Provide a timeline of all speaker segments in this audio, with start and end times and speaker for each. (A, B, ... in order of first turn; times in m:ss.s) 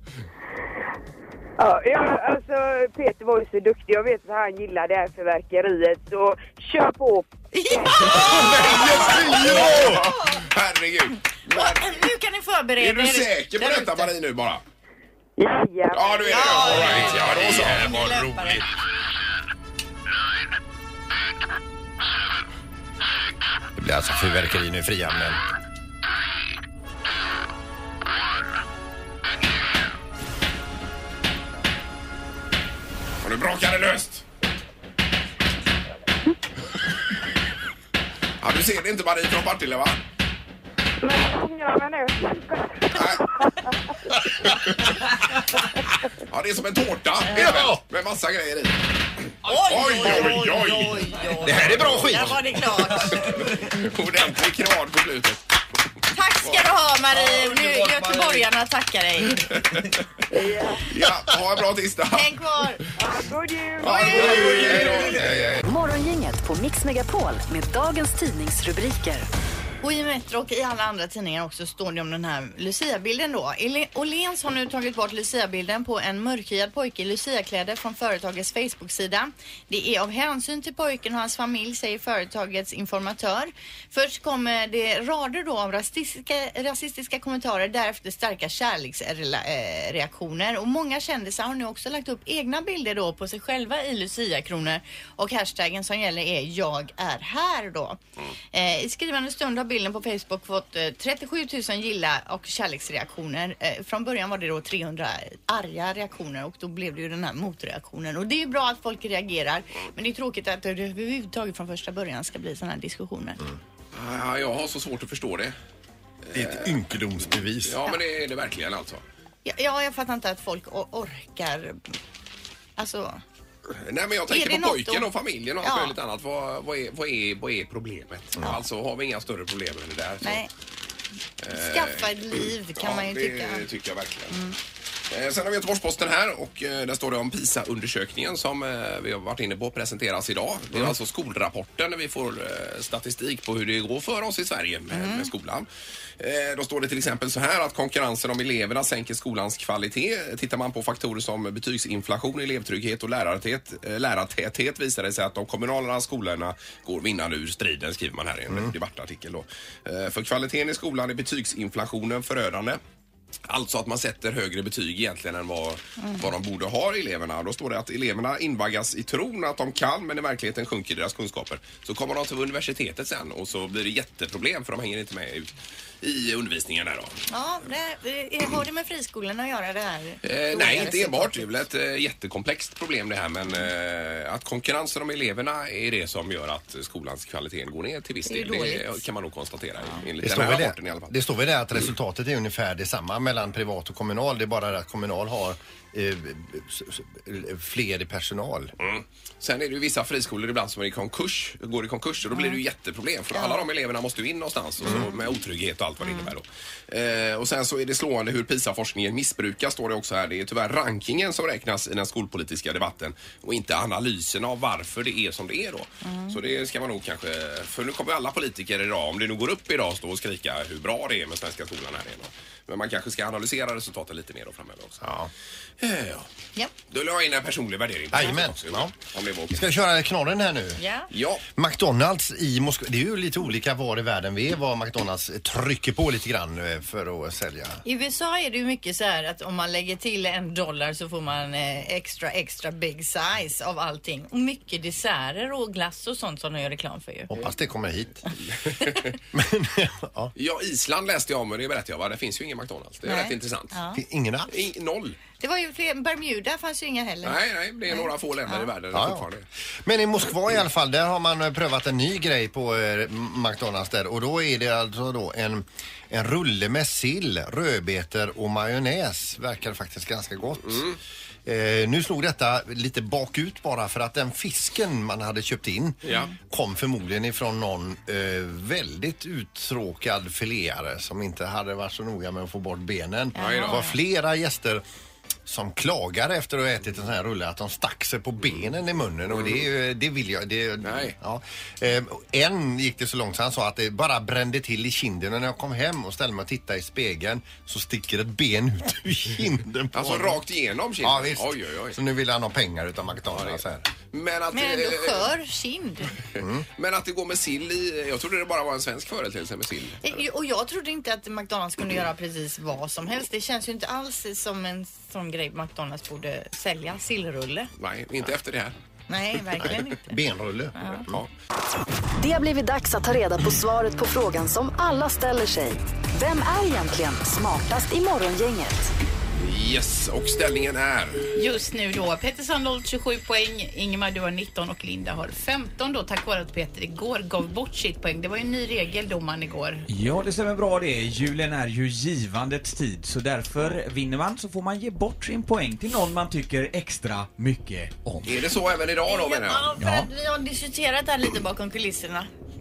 0:01.6-0:08.8 A
0:07.5-0:10.4 B
0:08.3-0:10.0 C
0:08.5-0:11.9 D
0:11.5-0:14.1 B
0:12.8-0:14.6 D
0:15.4-0:16.8 A
0:15.9-0:18.0 D
0:16.3-0:18.6 B
0:16.7-0:18.6 C
0:23.8-0:25.4 C
0:33.2-0:34.2 D
0:38.4-0:40.0 D
0:41.0-0:43.8 A
0:42.9-0:43.2 D
0:46.3-0:48.8 D
0:47.3-0:47.8 C
0:49.4-0:50.5 E
0:49.4-0:53.5 B
0:49.6-0:52.4 D
0:51.4-0:52.4 C
0:52.9-0:53.7 E
0:53.2-0:55.4 D
0:56.1-0:59.6 B
0:57.1-0:58.5 E
1:00.3-1:00.8 A
1:00.9-1:02.4 D
1:02.1-1:02.8 B
1:03.0-1:05.1 A
1:03.8-1:05.6 D
1:04.2-1:04.8 B
1:04.7-1:05.0 E
1:05.1-1:05.6 C
1:05.6-1:09.2 F
1:09.8-1:38.0 B
1:38.5-1:53.4 B
1:53.9-1:55.6 D
1:56.3-1:56.8 D
1:56.3-1:57.8 C
1:57.6-1:59.0 D
1:59.4-2:02.0 B
2:02.8-2:03.2 B
2:03.7-2:10.4 D
2:04.3-2:05.1 B
2:05.6-2:05.9 B
2:10.2-2:10.5 B
2:11.4-2:14.4 D
2:11.5-2:13.6 B
2:14.3-2:14.6 B
2:15.1-2:25.7 D
2:24.9-2:25.3 B
2:26.2-2:42.8 D
2:43.5-2:57.2 D
2:46.0-2:46.3 B
2:57.3-3:01.5 B
3:00.2-3:11.1 D
3:08.2-3:09.0 B
3:10.2-3:18.7 C
3:18.8-3:45.2 D
3:23.3-3:23.6 B
3:24.8-3:25.1 C
3:26.0-3:26.3 B
3:36.0-3:36.4 B
3:45.0-3:45.3 C
3:45.8-3:46.3 D
3:46.9-3:49.6 D
3:48.1-3:48.9 C
3:49.5-3:50.8 C
3:50.8-3:51.1 B
3:51.1-3:51.4 D
3:51.5-3:57.8 C
3:57.8-4:07.3 B
4:07.3-4:08.2 C
4:08.6-4:09.1 D
4:09.3-4:10.3 C
4:10.4-4:13.7 D
4:13.0-4:14.0 B
4:13.9-4:14.6 C
4:14.5-4:15.2 D
4:15.4-4:17.4 B
4:17.2-4:19.4 D
4:17.9-4:18.7 B
4:18.9-4:19.3 C
4:19.8-4:30.9 C
4:30.6-4:31.0 D
4:31.4-4:44.8 C
4:36.0-4:36.3 D
4:43.3-4:43.9 B
4:43.4-4:43.8 D
4:45.4-5:00.4 C
4:49.3-4:49.6 D
4:50.8-4:51.1 D
4:59.9-5:02.0 D
5:01.0-5:03.9 C
5:03.3-5:03.6 D
5:04.1-5:05.3 D
5:04.5-5:06.1 B
5:06.3-5:10.1 D
5:06.4-5:06.6 C
5:10.0-5:17.7 B
5:17.8-5:18.7 D
5:19.1-5:20.2 B
5:19.6-5:21.2 C
5:20.8-5:21.0 B
5:22.2-5:28.9 F
5:29.4-5:31.3 D
5:31.4-5:39.8 G
5:39.9-5:48.4 E
5:48.2-5:49.7 D
5:49.1-5:52.3 B
5:49.8-5:50.1 E